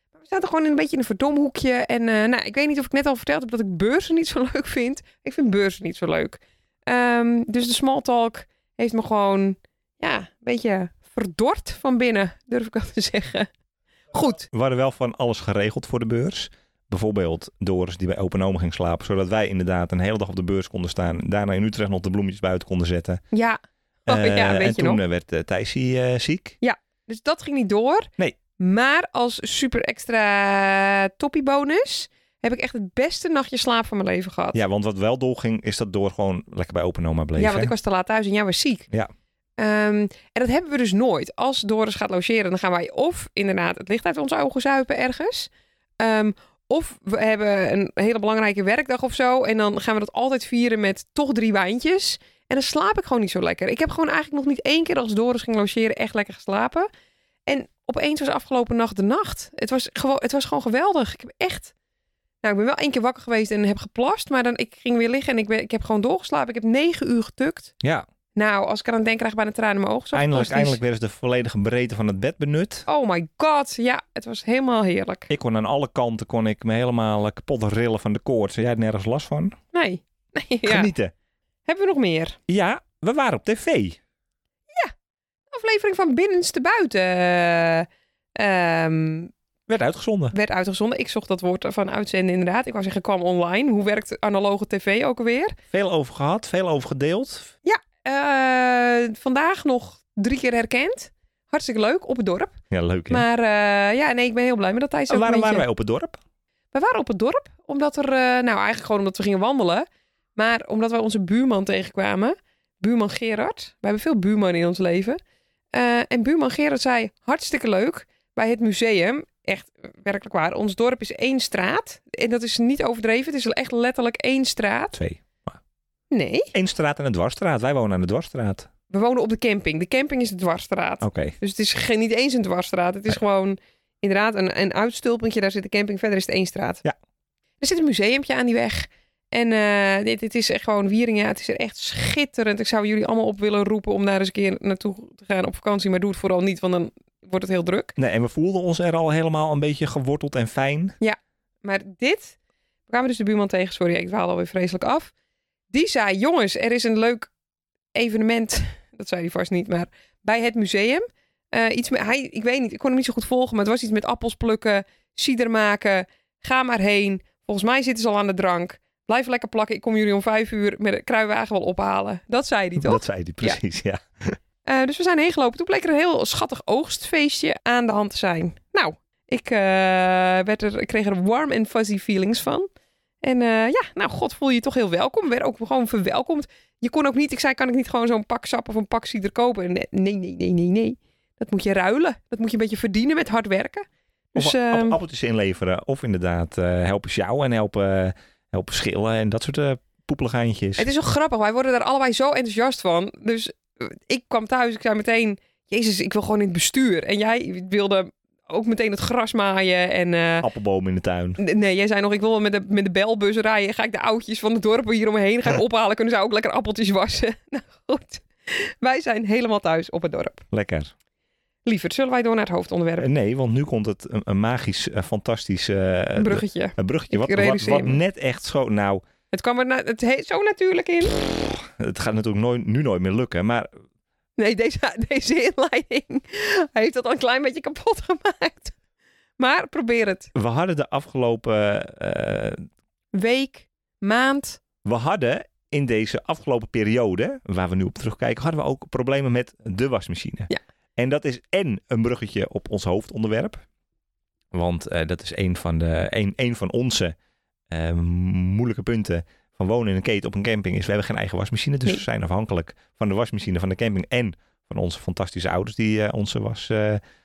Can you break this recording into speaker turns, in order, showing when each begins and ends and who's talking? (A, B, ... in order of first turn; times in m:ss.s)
0:00.2-0:13.5 A
0:14.1-0:14.4 A
0:14.5-0:23.2 B
0:23.3-0:25.0 A
0:24.1-0:26.6 B
0:26.6-0:34.6 A
0:34.5-0:37.7 B
0:37.4-0:38.9 A
0:39.6-0:56.9 A
0:57.4-1:01.7 A
1:02.4-1:07.7 A
1:08.3-1:10.8 A
1:10.1-1:12.9 B
1:12.9-1:15.3 A
1:15.3-1:19.6 B
1:19.7-1:20.9 A
1:20.6-1:21.1 B
1:21.6-1:22.4 A
1:22.5-1:24.0 B
1:25.5-1:29.3 A
1:29.7-1:30.3 B
1:30.3-1:35.6 A
1:35.7-1:37.5 B
1:37.6-1:42.5 A
1:42.7-1:43.2 B
1:43.1-1:45.6 A
1:45.1-1:46.2 B
1:46.7-1:55.2 A
1:55.7-2:04.9 A
2:04.9-2:05.6 B
2:06.1-2:06.5 A
2:06.5-2:08.7 B
2:08.9-2:16.8 A
2:11.0-2:11.4 B
2:17.6-2:28.0 A
2:28.0-2:31.0 B
2:31.0-2:32.4 A
2:32.9-2:35.1 A
2:35.7-2:37.3 A
2:37.9-2:53.6 A
2:52.8-2:54.4 B
2:54.6-3:02.7 A
3:03.2-3:15.0 A
3:14.3-3:20.9 B
3:20.8-3:30.5 A
3:30.4-3:31.4 B
3:31.4-3:40.4 A
3:40.5-3:40.9 B
3:41.6-3:43.1 A
3:43.0-3:49.0 B
3:46.2-3:48.0 A
3:49.3-3:51.2 A
3:51.5-3:53.7 B
3:54.4-3:58.8 A
3:59.4-4:00.3 A
4:00.3-4:02.7 B
4:03.1-4:04.6 A
4:04.8-4:13.6 B
4:14.5-4:17.1 B
4:17.7-4:27.0 B